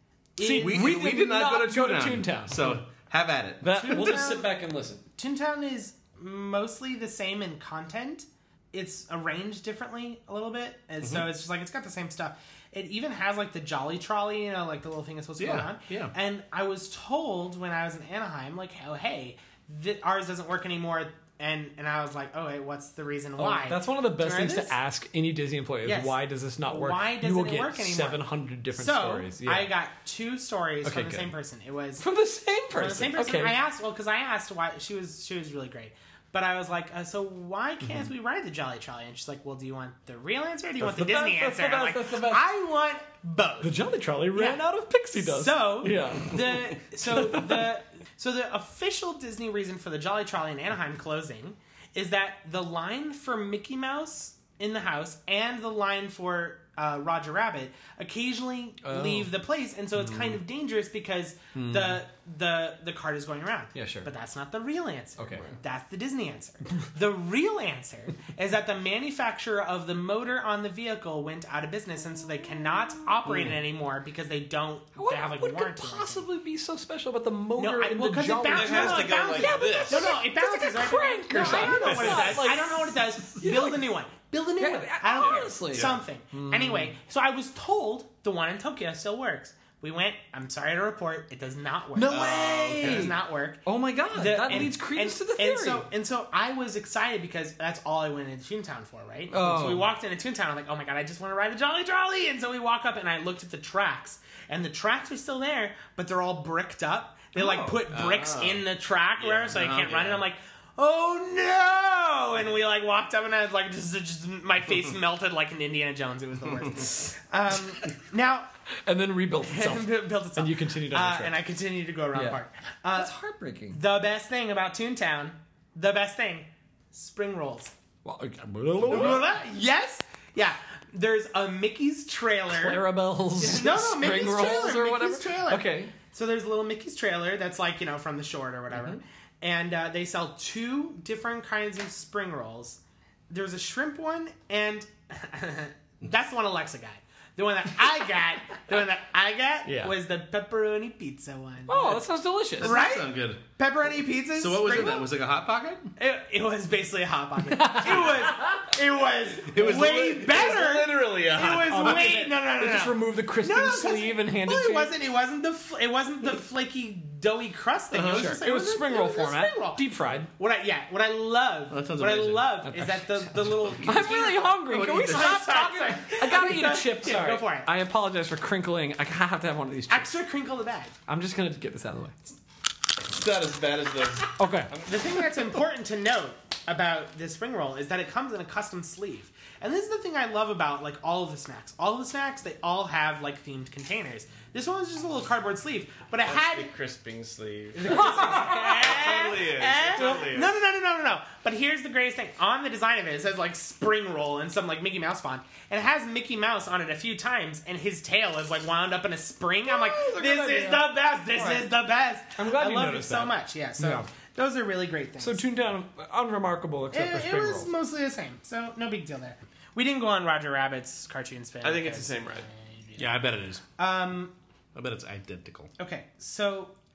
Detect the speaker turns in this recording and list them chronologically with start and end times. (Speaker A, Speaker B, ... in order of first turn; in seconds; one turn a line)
Speaker A: 0.4-1.1
Speaker B: 0.4-2.8
Speaker C: 0.6-4.3
Speaker B: 3.6-5.0
Speaker A: 3.7-4.5
Speaker A: 5.2-24.7
Speaker C: 11.0-11.3
Speaker C: 15.4-16.1
Speaker B: 23.4-29.7
Speaker A: 25.8-32.0
Speaker B: 30.8-31.3
Speaker B: 32.0-33.6
Speaker A: 32.8-43.8
Speaker B: 40.8-42.5
Speaker B: 43.6-47.7
Speaker A: 44.3-76.2
Speaker B: 58.8-59.3
Speaker B: 60.0-60.4
Speaker B: 61.5-62.0
Speaker B: 63.7-64.1
Speaker B: 65.2-65.5
Speaker B: 72.5-73.5
Speaker B: 74.9-83.9
Speaker A: 77.6-118.5
Speaker D: 78.5-80.2
Speaker D: 81.4-82.3
Speaker B: 84.6-86.9
Speaker D: 85.1-86.0
Speaker B: 91.9-95.8
Speaker D: 92.1-93.1
Speaker C: 92.8-93.1
Speaker B: 99.3-99.9
Speaker D: 107.8-108.6
Speaker D: 109.2-110.2
Speaker C: 109.5-110.1
Speaker B: 118.8-121.4
Speaker A: 119.5-123.1
Speaker B: 122.1-122.4
Speaker B: 122.9-123.8
Speaker A: 123.7-127.7
Speaker B: 128.0-129.3
Speaker A: 128.8-152.0
Speaker C: 128.9-129.1
Speaker B: 132.5-135.9
Speaker B: 149.6-149.9
Speaker B: 151.7-152.8
Speaker C: 152.6-153.4
Speaker A: 152.6-155.1
Speaker C: 154.3-155.9
Speaker A: 156.0-177.7
Speaker B: 157.5-158.7
Speaker C: 159.4-162.2
Speaker B: 161.7-164.9
Speaker C: 167.9-168.4
Speaker B: 168.1-170.3
Speaker C: 171.7-172.7
Speaker B: 172.6-180.1
Speaker C: 173.4-173.8
Speaker C: 174.7-175.6
Speaker A: 179.9-180.9
Speaker B: 181.1-182.2
Speaker C: 182.9-185.5
Speaker B: 184.4-184.7
Speaker A: 184.8-196.7
Speaker D: 196.2-200.6
Speaker A: 197.8-215.4
Speaker B: 197.8-199.1
Speaker B: 199.9-200.3
Speaker B: 209.7-211.7
Speaker B: 212.3-214.1
Speaker B: 215.2-217.7
Speaker A: 216.9-223.1
Speaker D: 221.6-222.5
Speaker C: 222.9-223.6
Speaker A: 223.8-224.3
Speaker C: 224.7-225.7
Speaker A: 225.8-226.7